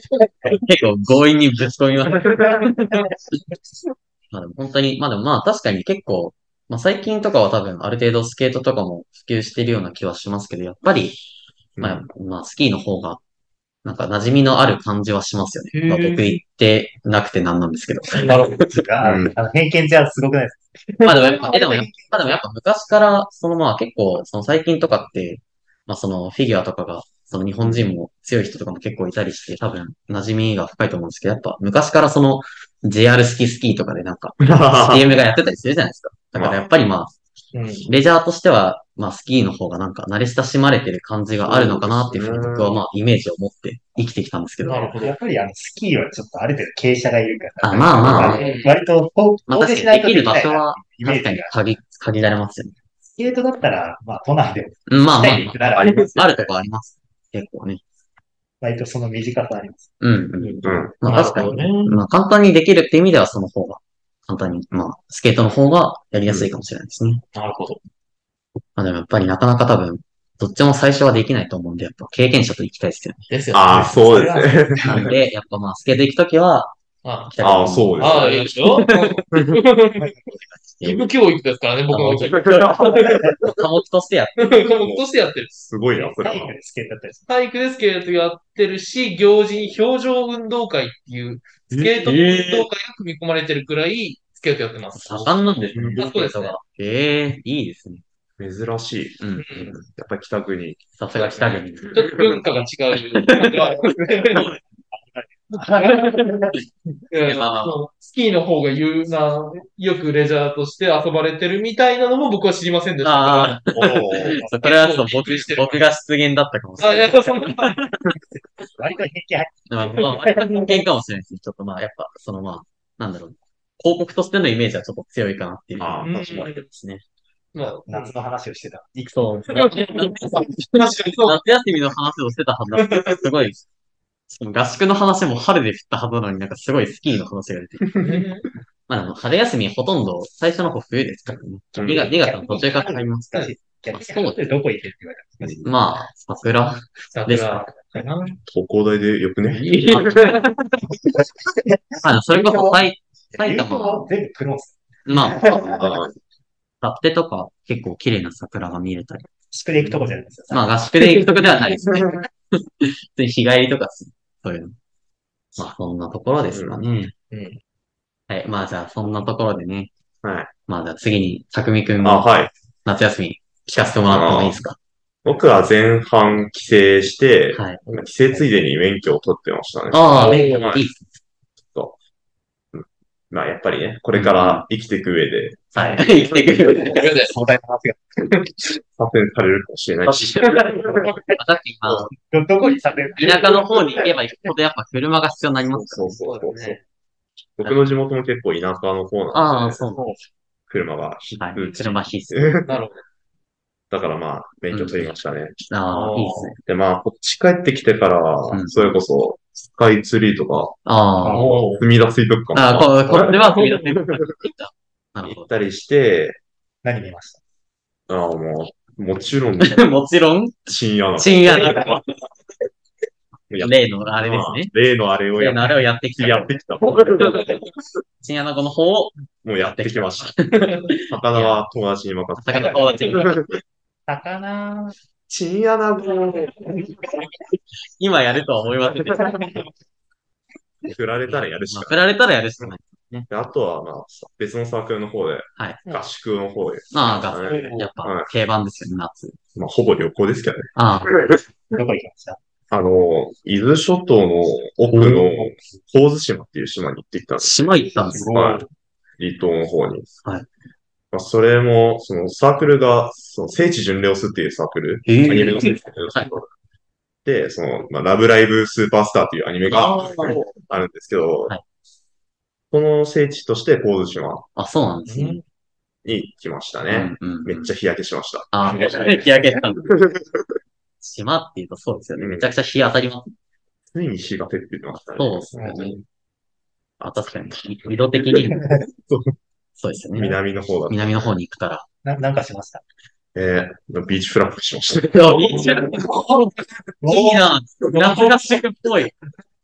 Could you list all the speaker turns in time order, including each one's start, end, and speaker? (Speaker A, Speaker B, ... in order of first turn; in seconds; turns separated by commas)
Speaker A: 0.5-3.0, Speaker A: 4.3-11.2, Speaker B: 11.8-12.1, Speaker A: 11.8-13.2, Speaker A: 13.8-18.4, Speaker C: 15.7-16.4, Speaker C: 18.2-18.6, Speaker D: 18.5-22.3, Speaker B: 19.0-19.3, Speaker C: 20.9-21.5, Speaker A: 21.0-37.1, Speaker B: 27.6-27.9, Speaker B: 34.4-35.1, Speaker B: 36.4-36.6, Speaker C: 37.5-37.9, Speaker A: 37.9-44.9, Speaker B: 41.4-42.8, Speaker C: 44.6-45.2, Speaker D: 45.0-51.5, Speaker A: 47.6-48.5, Speaker B: 48.0-48.4, Speaker C: 48.4-48.7, Speaker A: 49.5-52.7, Speaker D: 53.1-56.1, Speaker A: 54.9-57.8, Speaker B: 55.6-56.4, Speaker D: 58.6-59.9, Speaker A: 60.0-67.2, Speaker C: 60.4-62.0, Speaker B: 60.6-61.0, Speaker C: 67.3-67.8, Speaker A: 68.8-73.3, Speaker C: 73.3-74.0, Speaker B: 73.5-75.1, Speaker D: 73.7-75.2, Speaker A: 74.8-76.7, Speaker C: 77.0-77.3, Speaker A: 77.3-79.2, Speaker B: 77.4-78.5, Speaker C: 78.0-80.1, Speaker B: 79.3-79.6, Speaker A: 80.5-81.1, Speaker C: 80.8-83.1, Speaker A: 81.9-84.7, Speaker B: 82.2-83.6, Speaker C: 84.4-85.5, Speaker B: 84.8-86.5, Speaker D: 85.9-87.3, Speaker C: 87.3-96.5, Speaker A: 91.7-92.7, Speaker A: 94.9-98.0, Speaker B: 95.7-96.1, Speaker B: 98.4-100.8, Speaker A: 99.2-99.8, Speaker C: 99.3-99.7, Speaker A: 101.0-102.2, Speaker C: 101.2-104.5, Speaker B: 102.0-102.4, Speaker A: 103.1-103.7, Speaker D: 103.8-104.4, Speaker A: 104.3-104.6, Speaker D: 104.9-106.6, Speaker C: 105.6-106.1, Speaker A: 105.8-106.3, Speaker C: 107.1-115.8, Speaker A: 107.2-107.8, Speaker A: 113.0-118.0, Speaker B: 113.7-114.4, Speaker C: 116.8-117.8, Speaker D: 118.7-120.8, Speaker A: 119.7-127.0, Speaker B: 125.8-126.5, Speaker C: 126.0-126.6, Speaker C: 127.5-128.1, Speaker D: 127.9-129.7, Speaker A: 129.2-133.6, Speaker C: 129.5-131.4, Speaker C: 132.8-133.2, Speaker A: 134.3-138.1, Speaker C: 138.0-138.5, Speaker A: 138.9-144.4, Speaker B: 141.8-142.1, Speaker D: 141.8-145.7, Speaker B: 145.4-145.7, Speaker A: 145.6-147.7, Speaker C: 147.1-148.4, Speaker B: 148.5-150.4, Speaker C: 149.6-150.4, Speaker A: 149.9-150.4, Speaker D: 151.7-155.8, Speaker A: 152.0-154.1, Speaker A: 155.1-155.9, Speaker B: 155.6-156.1, Speaker A: 156.8-159.3, Speaker D: 159.5-160.7, Speaker A: 160.5-164.7, Speaker B: 161.9-162.2, Speaker A: 165.6-167.1, Speaker B: 166.5-166.8, Speaker C: 167.3-167.6, Speaker A: 168.3-169.9, Speaker B: 170.2-170.5, Speaker A: 170.7-172.2, Speaker B: 172.0-172.5, Speaker A: 172.8-174.8, Speaker B: 174.1-174.6, Speaker B: 175.2-180.8, Speaker A: 177.5-177.8, Speaker A: 179.9-181.0, Speaker C: 180.1-180.7, Speaker B: 182.7-185.7, Speaker A: 184.1-184.7, Speaker A: 185.7-187.1, Speaker C: 186.9-187.3, Speaker D: 187.3-188.0, Speaker B: 188.9-191.2, Speaker A: 190.1-192.1, Speaker D: 191.0-191.3, Speaker B: 191.8-192.1, Speaker D: 192.3-194.1, Speaker A: 193.2-196.2, Speaker B: 195.7-196.8, Speaker C: 196.2-196.8, Speaker B: 197.6-199.8, Speaker A: 199.3-200.1, Speaker D: 199.9-200.2, Speaker B: 200.7-202.8, Speaker A: 201.4-202.6, Speaker C: 202.7-203.0, Speaker B: 203.9-205.6, Speaker A: 204.7-205.1, Speaker A: 205.7-206.6, Speaker C: 205.9-206.5, Speaker B: 206.6-210.8, Speaker A: 208.5-208.9, Speaker A: 210.8-211.5, Speaker D: 211.2-211.6, Speaker C: 211.3-211.8, Speaker B: 211.8-214.3, Speaker A: 212.5-215.5, Speaker C: 213.5-213.7, Speaker B: 215.2-216.4, Speaker D: 216.8-217.4, Speaker B: 218.1-219.9, Speaker A: 219.6-222.0, Speaker B: 220.7-222.0, Speaker B: 223.5-227.6, Speaker A: 223.6-224.7, Speaker A: 225.3-226.5, Speaker A: 228.2-231.7, Speaker B: 229.4-230.4, Speaker B: 231.0-233.6, Speaker A: 232.4-233.5, Speaker D: 234.1-234.9, Speaker B: 235.3-236.7, Speaker A: 238.0-239.6, Speaker B: 240.8-242.0, Speaker A: 241.3-243.3, Speaker B: 243.3-248.3, Speaker A: 245.6-245.8, Speaker A: 246.9-249.4, Speaker B: 249.5-251.4, Speaker A: 250.8-251.1, Speaker D: 251.7-252.4, Speaker B: 252.7-257.5, Speaker A: 254.9-255.3, Speaker D: 255.2-255.5, Speaker A: 257.4-258.3, Speaker D: 257.9-258.7, Speaker B: 258.3-258.6, Speaker B: 259.2-260.1, Speaker B: 261.1-266.5, Speaker A: 265.1-266.3, Speaker B: 267.2-271.5, Speaker A: 269.7-270.4, Speaker B: 272.7-274.5, Speaker A: 274.6-275.4, Speaker C: 275.1-275.4, Speaker B: 276.0-278.5, Speaker A: 276.9-277.7, Speaker A: 278.5-279.9, Speaker B: 279.8-280.5, Speaker A: 281.0-283.3, Speaker B: 282.2-282.5, Speaker B: 283.9-286.0, Speaker A: 285.1-286.0, Speaker A: 287.0-288.6, Speaker B: 289.0-289.4, Speaker A: 289.8-291.9, Speaker B: 290.1-291.3, Speaker D: 292.0-292.8, Speaker B: 293.3-295.7, Speaker A: 295.1-299.1, Speaker D: 297.0-297.5